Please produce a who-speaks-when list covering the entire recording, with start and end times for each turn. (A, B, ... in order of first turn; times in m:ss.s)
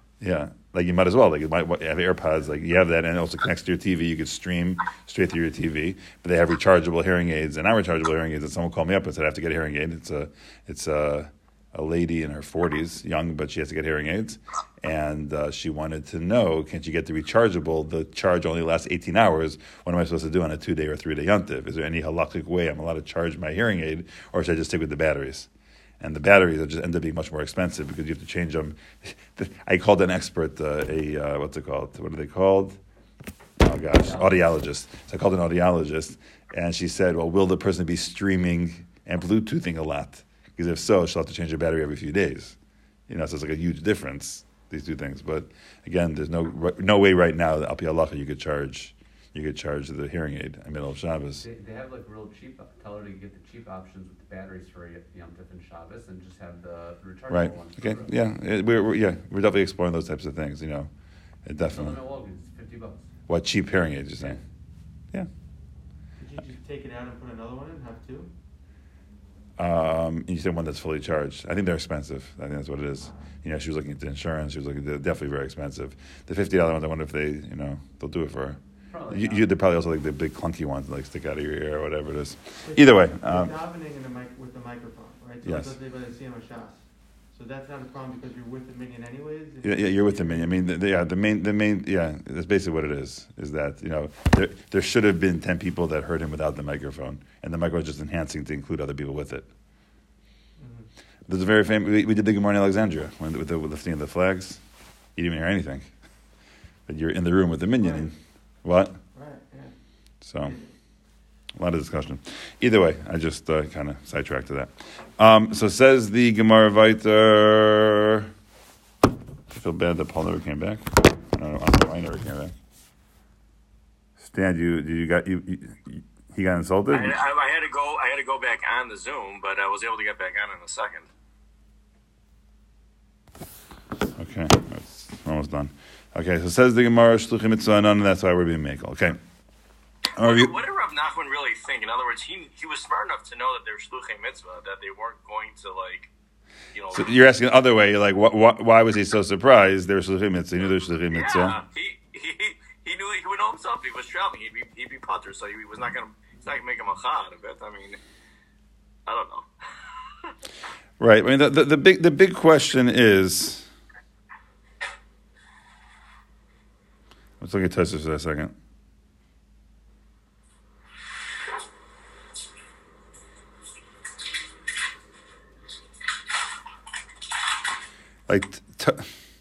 0:00.2-0:25.5 A
0:26.0-0:32.8 A
0:33.6-0:42.6 A
0:33.9-0:34.4 B
0:43.1-0:51.4 A
0:51.4-0:58.2 B
0:57.3-1:00.9 A
1:01.4-1:02.0 A
1:01.6-1:03.1 B
1:03.3-1:04.4 A
1:06.2-1:08.3 C
1:09.6-1:23.5 A
1:18.9-1:19.5 B
1:22.6-1:26.8 C
1:25.4-1:25.7 A
1:27.3-1:30.6 C
1:29.6-1:39.5 A
1:40.6-1:40.9 C
1:41.3-1:44.6 A
1:45.2-1:45.9 A
1:46.9-1:49.0 A
1:47.8-1:48.0 C
1:49.1-1:49.7 C
1:50.2-1:50.5 A
1:50.4-1:50.7 C
1:51.6-1:58.3 A
1:59.5-2:02.5 A
2:04.2-2:07.1 A
2:06.9-2:11.1 D
2:14.2-2:19.2 A
2:20.2-2:20.5 A
2:20.2-2:26.1 D
2:26.7-2:27.2 D
2:26.9-2:31.6 A
2:31.1-2:38.0 D
2:39.1-2:39.4 D
2:41.0-2:43.7 A
2:47.4-2:48.5 A
2:58.3-2:59.1 A